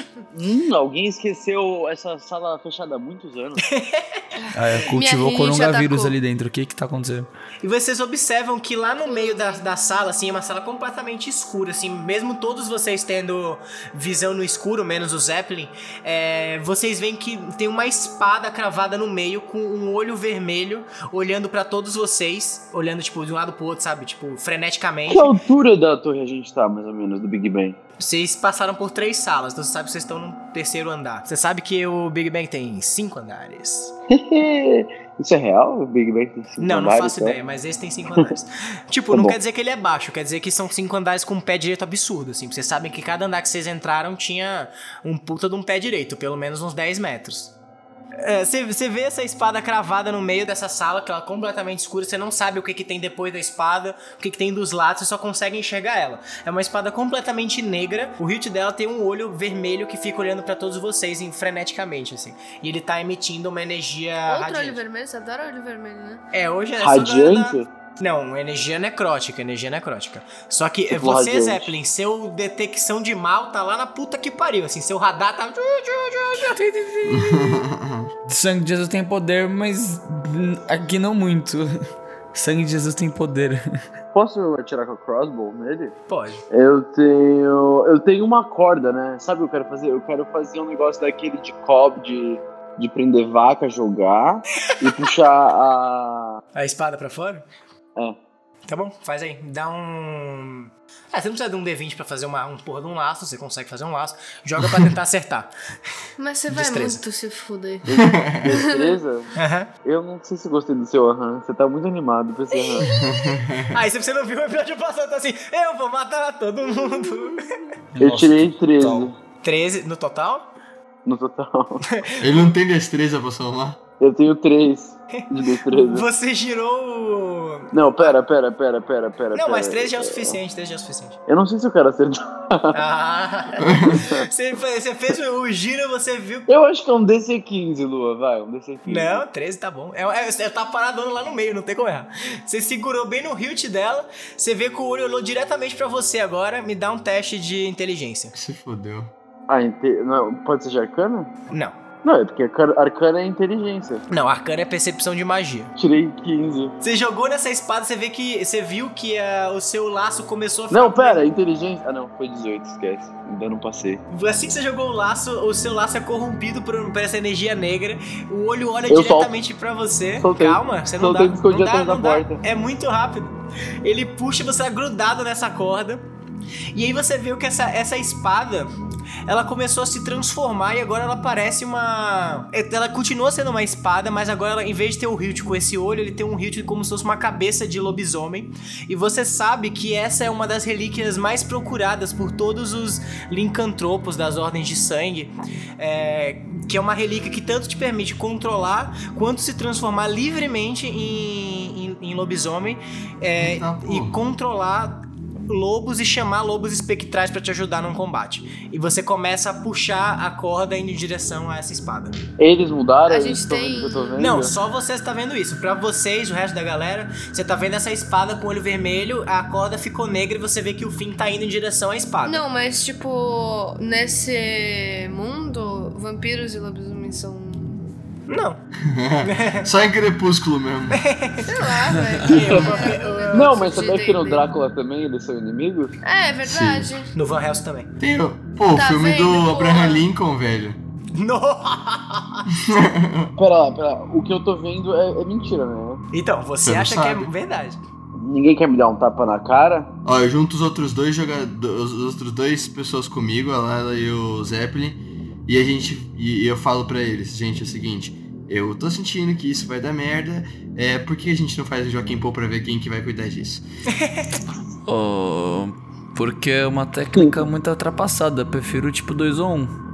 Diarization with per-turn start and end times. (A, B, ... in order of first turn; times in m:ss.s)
0:00.3-0:03.6 A
0:03.7-0:04.3 B
0:04.4-0:06.1 C
0:04.5-0:07.3 D
0:07.6-0:25.4 B
0:09.1-0:09.6 C
0:25.1-0:27.8 A
0:28.0-0:33.9 B
0:34.1-0:37.4 A
0:36.6-0:47.5 B
0:48.2-1:04.8 B
1:04.3-1:06.2 C
1:06.3-1:16.6 B
1:06.8-1:07.7 A
1:10.9-1:11.7 A
1:16.5-1:17.6 D
1:17.1-1:18.1 E
1:18.3-1:21.7 D
1:22.3-1:23.7 D
1:24.1-1:26.0 A
1:26.1-1:26.4 B
1:26.5-1:36.4 A
1:36.6-1:37.4 B
1:38.7-1:45.5 B
1:46.2-1:47.9 C
1:46.5-1:47.0 B
1:47.9-1:52.8 A
1:48.0-1:48.6 E
1:48.5-1:49.0 C
1:49.4-1:49.7 B
1:52.5-1:53.4 C
1:52.8-1:53.8 E
1:53.7-1:57.5 B
1:58.0-1:59.1 D
1:58.0-1:59.1 A
1:59.4-2:00.5 B
2:01.0-2:01.8 A
2:01.9-2:02.4 B
2:02.2-2:03.8 E
2:04.0-2:06.1 A
2:05.2-2:08.2 B
2:07.7-2:10.4 A
2:09.3-2:11.2 B
2:11.3-2:12.8 A
2:12.7-2:16.5 B
2:13.6-2:14.0 E
2:13.9-2:14.2 A
2:16.5-2:19.2 A
2:18.9-2:28.4 B
2:28.3-2:29.1 E
2:29.5-2:31.3 A
2:31.5-2:31.8 B
2:32.0-2:34.1 A
2:34.1-2:35.7 B
2:35.8-2:36.7 A
2:36.8-2:41.2 B
2:40.7-2:44.0 A
2:44.1-2:56.0 B
2:48.9-2:49.4 A
2:50.2-2:52.4 A
2:56.7-2:58.7 B
2:59.3-3:32.2 B
3:23.4-3:24.2 E
3:32.4-3:34.5 A
3:33.1-3:34.3 C
3:34.2-3:42.4 B
3:42.3-3:47.8 C
3:48.3-3:48.6 B
3:48.8-3:51.0 E
3:49.2-3:49.7 B
3:50.9-3:51.7 B
3:51.4-3:54.4 C
3:51.9-3:52.3 D
3:52.2-3:53.7 B
3:52.5-3:52.9 E
3:53.3-3:55.9 A
3:56.0-3:57.1 C
3:56.4-3:56.9 E
3:57.1-3:57.9 B
3:58.0-4:00.8 E
3:58.7-4:00.0 C
4:01.1-4:02.5 B
4:02.5-4:03.3 E
4:03.4-4:06.0 A
4:06.1-4:07.8 B
4:06.6-4:07.3 E
4:08.2-4:09.9 A
4:10.0-4:23.6 E
4:23.9-4:24.4 B
4:24.9-4:29.7 D